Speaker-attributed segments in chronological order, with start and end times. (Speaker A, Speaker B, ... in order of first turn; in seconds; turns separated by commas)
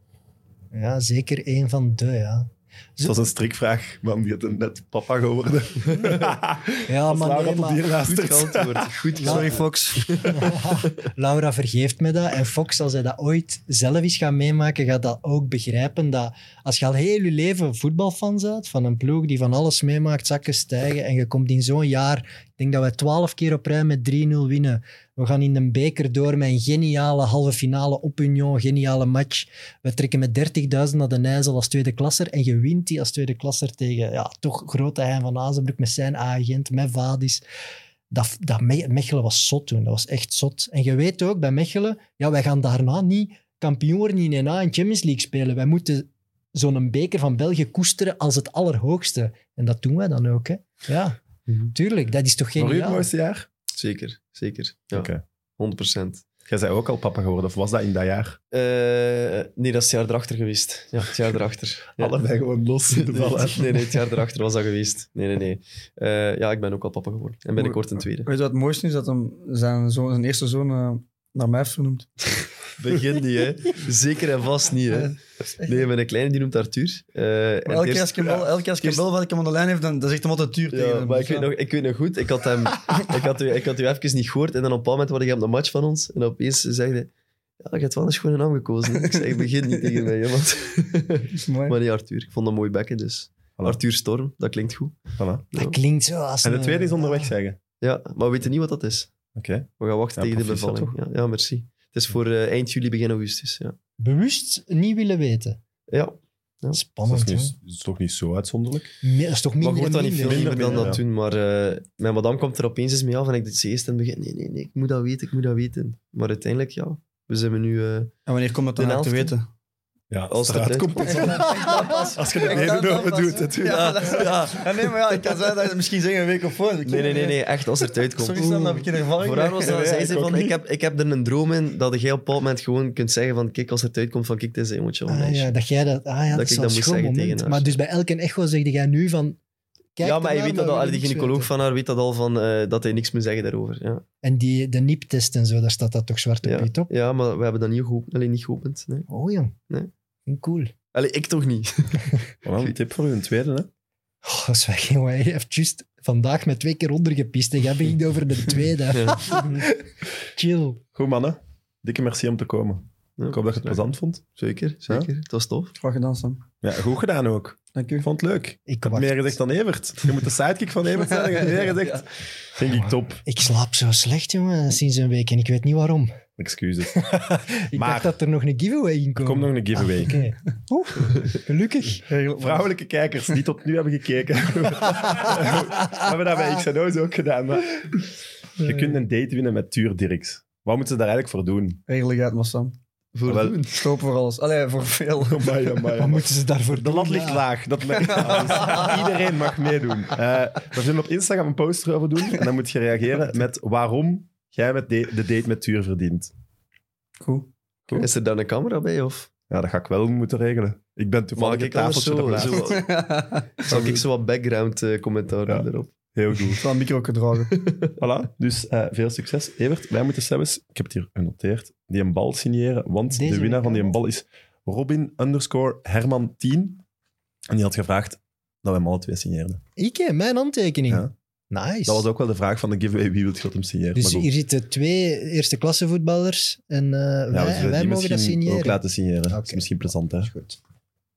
Speaker A: 0.7-3.2, Speaker B: 3.0-8.9, Speaker A: 6.9-8.0, Speaker C: 8.0-10.5, Speaker A: 9.2-9.5, Speaker D: 9.2-10.1, Speaker A: 10.3-37.4, Speaker A: 38.1-53.1, Speaker B: 52.6-53.5, Speaker C: 53.7-56.2, Speaker B: 54.9-55.2, Speaker B: 56.5-58.4, Speaker C: 58.5-62.1, Speaker B: 62.0-63.8, Speaker C: 62.9-68.3, Speaker D: 67.6-72.3, Speaker C: 72.8-79.0, Speaker D: 74.9-75.9, Speaker D: 77.7-81.5, Speaker C: 80.7-95.8, Speaker D: 89.0-89.4, Speaker D: 91.3-91.8, Speaker B: 95.2-95.5, Speaker A: 95.5-97.3, Speaker B: 96.4-97.6, Speaker C: 97.8-99.1, Speaker B: 99.3-100.9, Speaker C: 99.8-103.7, Speaker A: 104.0-105.6, Speaker C: 105.9-106.8, Speaker A: 106.7-107.5, Speaker B: 107.0-108.9, Speaker A: 109.0-110.9, Speaker C: 109.6-118.1, Speaker B: 110.2-111.0, Speaker D: 118.3-119.5, Speaker C: 118.8-119.3, Speaker B: 120.1-121.6, Speaker C: 120.3-122.1, Speaker D: 121.0-130.1, Speaker B: 122.1-124.3, Speaker C: 123.6-124.7, Speaker C: 126.8-128.6, Speaker A: 128.3-128.8, Speaker C: 129.2-135.5, Speaker B: 129.6-130.6, Speaker A: 135.1-139.4, Speaker C: 136.3-137.8, Speaker A: 139.9-141.5, Speaker C: 140.0-144.0, Speaker A: 144.2-146.9, Speaker C: 146.4-149.1, Speaker A: 149.1-149.5, Speaker A: 150.3-150.7, Speaker C: 150.9-152.2, Speaker B: 152.4-153.7, Speaker A: 154.2-159.8, Speaker C: 158.9-159.6, Speaker A: 160.3-160.8, Speaker B: 160.9-164.2, Speaker C: 163.2-165.7, Speaker D: 165.8-166.4, Speaker B: 166.6-173.2, Speaker D: 167.7-168.1, Speaker A: 168.7-169.4, Speaker A: 172.8-176.1, Speaker B: 176.4-177.0, Speaker A: 176.9-182.0, Speaker B: 177.7-178.1, Speaker B: 179.2-180.2, Speaker D: 182.1-182.7, Speaker B: 182.4-188.0, Speaker B: 188.6-191.8, Speaker A: 188.6-188.9, Speaker D: 191.9-192.8, Speaker C: 193.1-193.8, Speaker B: 193.2-193.6, Speaker D: 193.7-195.9, Speaker B: 195.2-206.3, Speaker A: 196.0-197.4, Speaker D: 198.0-199.0, Speaker D: 207.2-207.5, Speaker C: 207.9-209.3, Speaker B: 209.5-212.7, Speaker C: 211.3-215.9, Speaker D: 212.5-214.0, Speaker B: 215.5-216.6, Speaker D: 216.5-217.6, Speaker C: 217.5-217.9, Speaker B: 218.0-226.8, Speaker A: 223.1-223.9, Speaker B: 227.5-229.6, Speaker A: 229.8-232.0, Speaker B: 231.8-234.3, Speaker A: 233.9-240.6, Speaker B: 237.3-240.3